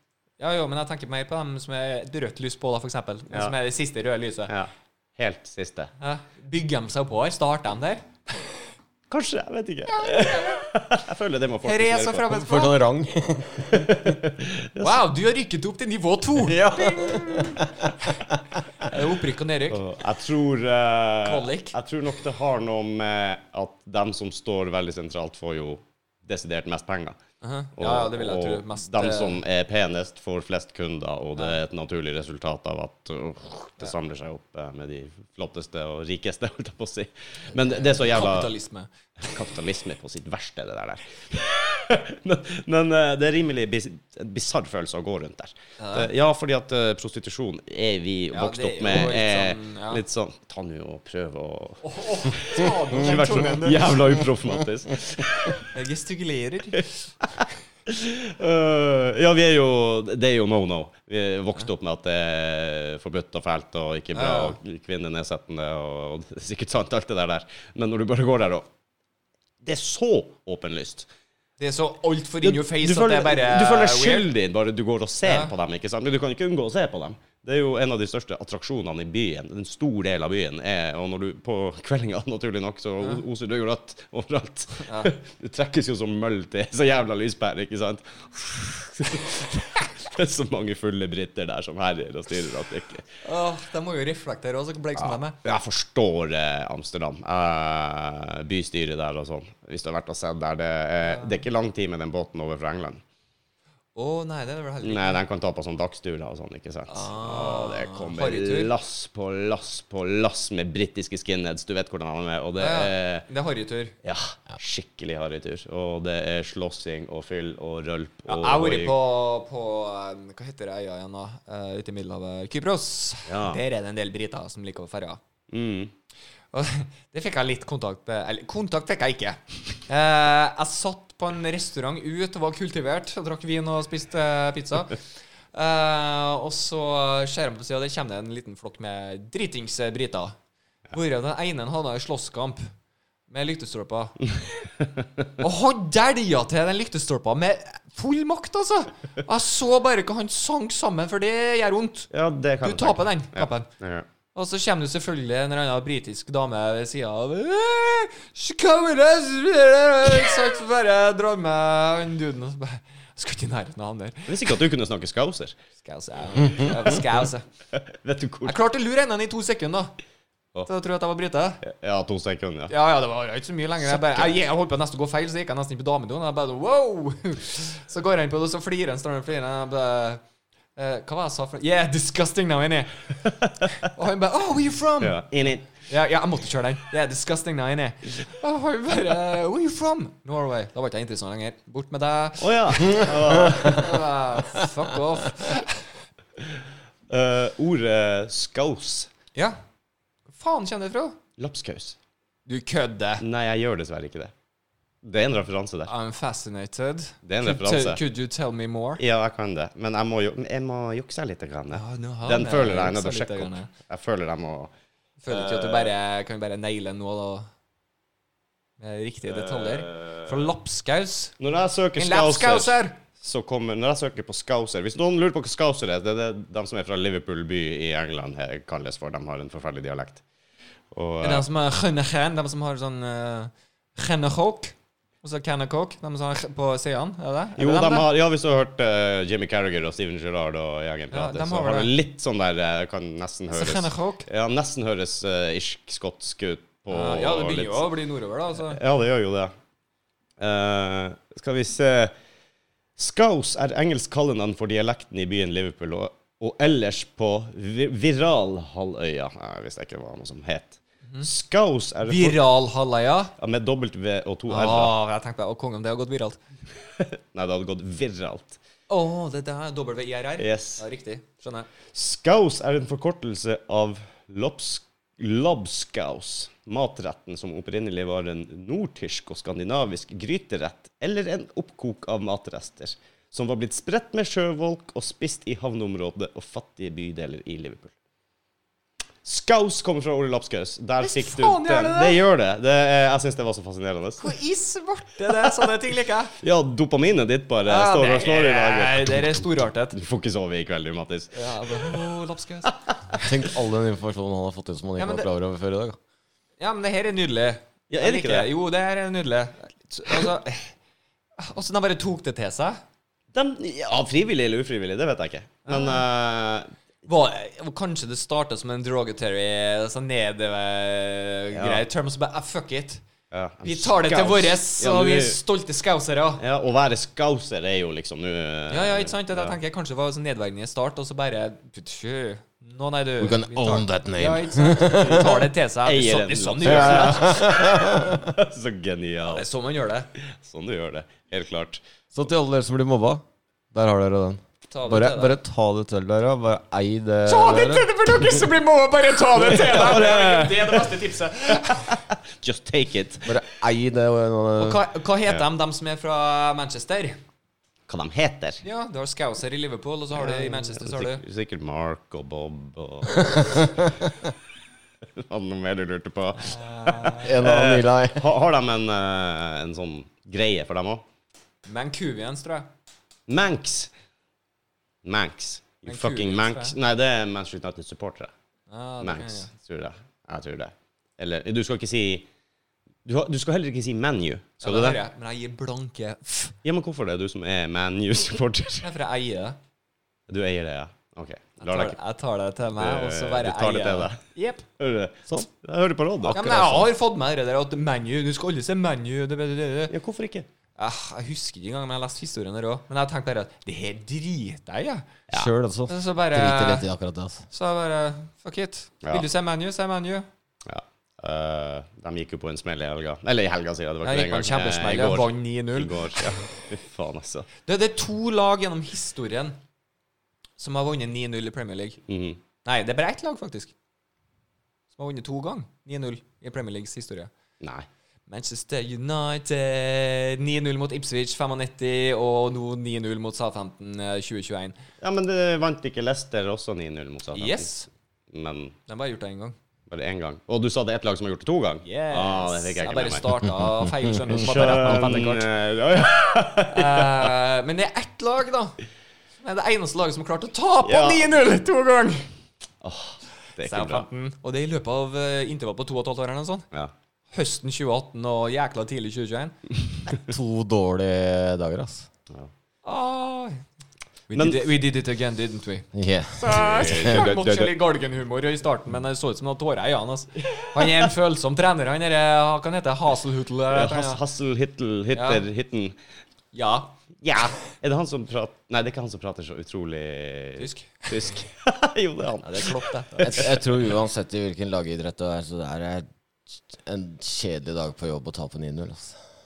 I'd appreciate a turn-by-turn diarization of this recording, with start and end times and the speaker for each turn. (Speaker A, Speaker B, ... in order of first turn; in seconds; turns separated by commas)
Speaker A: 0.4-4.5, Speaker B: 4.5-5.9, Speaker A: 6.0-8.1, Speaker B: 9.1-12.4, Speaker A: 10.0-10.6, Speaker A: 11.7-12.8, Speaker C: 12.3-14.2, Speaker B: 13.7-15.0, Speaker A: 14.8-17.7, Speaker C: 16.4-18.4, Speaker A: 18.8-19.8, Speaker B: 19.7-27.2, Speaker A: 21.2-21.8, Speaker A: 27.4-29.4, Speaker B: 27.8-38.5, Speaker A: 37.6-38.9, Speaker B: 39.2-55.7, Speaker A: 45.8-46.1, Speaker A: 48.3-50.0, Speaker A: 51.8-54.1, Speaker A: 55.7-56.9, Speaker B: 57.2-68.7, Speaker A: 64.1-64.6, Speaker B: 69.6-71.1, Speaker A: 71.6-74.3, Speaker B: 72.4-93.1, Speaker A: 75.2-75.5, Speaker A: 84.8-85.1, Speaker A: 93.2-95.4, Speaker B: 95.0-103.0, Speaker A: 101.0-101.4, Speaker A: 104.0-105.2, Speaker B: 104.8-113.2, Speaker A: 106.9-108.7, Speaker A: 112.6-113.9, Speaker B: 114.0-119.0, Speaker A: 118.3-125.2, Speaker B: 123.3-123.6, Speaker B: 125.5-125.9, Speaker A: 126.5-135.0, Speaker A: 135.5-140.4, Speaker A: 140.9-142.7, Speaker A: 143.3-144.2, Speaker B: 144.8-145.2, Speaker A: 145.4-152.1, Speaker B: 152.1-154.1, Speaker A: 152.6-153.7, Speaker A: 154.3-164.3, Speaker B: 164.3-165.6, Speaker A: 165.8-167.4, Speaker B: 167.8-168.6, Speaker A: 168.4-169.9, Speaker A: 170.7-171.6, Speaker B: 171.6-172.7, Speaker A: 172.7-180.2, Speaker B: 173.9-174.3, Speaker A: 180.8-183.1, Speaker A: 183.8-185.2, Speaker B: 185.0-185.7, Speaker A: 185.9-195.8, Speaker B: 192.4-194.0, Speaker B: 197.1-199.1, Speaker A: 200.3-201.2, Speaker B: 201.4-202.0, Speaker A: 202.5-203.2, Speaker B: 203.2-204.3, Speaker B: 205.0-205.9, Speaker A: 205.9-209.0, Speaker B: 207.2-208.0, Speaker B: 209.0-214.7, Speaker A: 211.7-213.7, Speaker A: 215.2-217.5, Speaker B: 215.3-215.9, Speaker A: 218.8-221.3, Speaker B: 219.3-220.4, Speaker B: 221.4-230.2, Speaker A: 222.0-223.0, Speaker B: 230.9-231.4, Speaker A: 231.2-238.1, Speaker B: 237.6-247.9, Speaker A: 241.1-241.9, Speaker A: 243.5-244.3, Speaker A: 246.9-248.8, Speaker B: 248.7-249.5, Speaker B: 250.4-252.1, Speaker B: 253.0-262.4, Speaker A: 262.1-263.3, Speaker B: 263.4-264.9, Speaker A: 264.5-266.4, Speaker B: 267.0-268.6, Speaker A: 268.9-271.7, Speaker B: 270.4-270.8, Speaker B: 271.9-287.9, Speaker B: 289.2-294.3, Speaker A: 291.0-292.2, Speaker A: 294.2-296.3, Speaker B: 296.4-302.0, Speaker A: 297.6-300.0, Speaker A: 301.3-302.8, Speaker C: 303.2-306.0, Speaker A: 305.0-305.3, Speaker A: 306.6-310.7, Speaker B: 307.9-308.5, Speaker A: 311.4-312.8, Speaker B: 313.3-316.7, Speaker A: 315.7-316.0, Speaker A: 317.1-323.0, Speaker B: 321.6-321.8, Speaker B: 323.3-325.4, Speaker A: 323.6-326.4, Speaker B: 326.4-329.6, Speaker A: 328.7-337.5, Speaker C: 333.2-335.4, Speaker B: 335.1-339.5, Speaker C: 336.6-338.3, Speaker A: 339.3-340.1, Speaker B: 340.4-341.8, Speaker C: 342.1-347.9, Speaker A: 344.7-345.4, Speaker A: 347.2-351.9, Speaker B: 349.3-351.0, Speaker B: 351.6-353.3, Speaker C: 353.3-354.8, Speaker A: 354.6-357.2, Speaker B: 357.9-358.6, Speaker A: 358.6-361.2, Speaker B: 360.1-363.7, Speaker C: 363.2-363.9, Speaker B: 365.2-371.0, Speaker A: 366.4-367.3, Speaker C: 367.1-368.3, Speaker A: 371.7-372.7, Speaker B: 373.3-373.9, Speaker B: 375.0-378.3, Speaker A: 375.9-376.8, Speaker A: 378.7-379.5, Speaker B: 379.0-382.3, Speaker B: 383.1-385.0, Speaker A: 384.6-386.6, Speaker B: 386.6-388.9, Speaker A: 388.8-389.6, Speaker B: 390.3-392.0, Speaker A: 391.6-394.6, Speaker B: 392.8-394.2, Speaker B: 394.8-396.9, Speaker A: 396.3-399.9, Speaker B: 399.9-400.5, Speaker A: 400.8-405.1, Speaker C: 405.3-407.5, Speaker A: 405.9-406.9, Speaker A: 407.5-410.3, Speaker B: 410.7-417.5, Speaker A: 414.0-416.3, Speaker A: 417.7-419.6, Speaker A: 420.6-422.0, Speaker B: 422.1-422.4, Speaker A: 422.6-423.7, Speaker A: 424.9-427.3, Speaker B: 427.6-427.9, Speaker A: 428.3-434.8, Speaker B: 435.0-437.7, Speaker A: 437.3-437.9, Speaker B: 438.3-438.8, Speaker A: 438.9-439.6, Speaker B: 439.9-443.3, Speaker A: 441.9-445.5, Speaker B: 444.3-447.3, Speaker A: 446.7-448.8, Speaker A: 449.4-452.3, Speaker B: 450.8-451.2, Speaker B: 452.8-454.1, Speaker A: 453.6-456.7, Speaker A: 457.3-459.6, Speaker C: 460.1-462.1, Speaker A: 462.8-463.6, Speaker A: 464.3-465.9, Speaker B: 464.3-464.7, Speaker C: 465.9-467.2, Speaker A: 466.4-474.2, Speaker B: 466.5-467.8, Speaker B: 473.7-476.0, Speaker A: 475.1-475.4, Speaker A: 476.5-476.9, Speaker B: 477.2-482.8, Speaker A: 480.6-481.1, Speaker A: 482.4-483.5, Speaker C: 483.2-489.2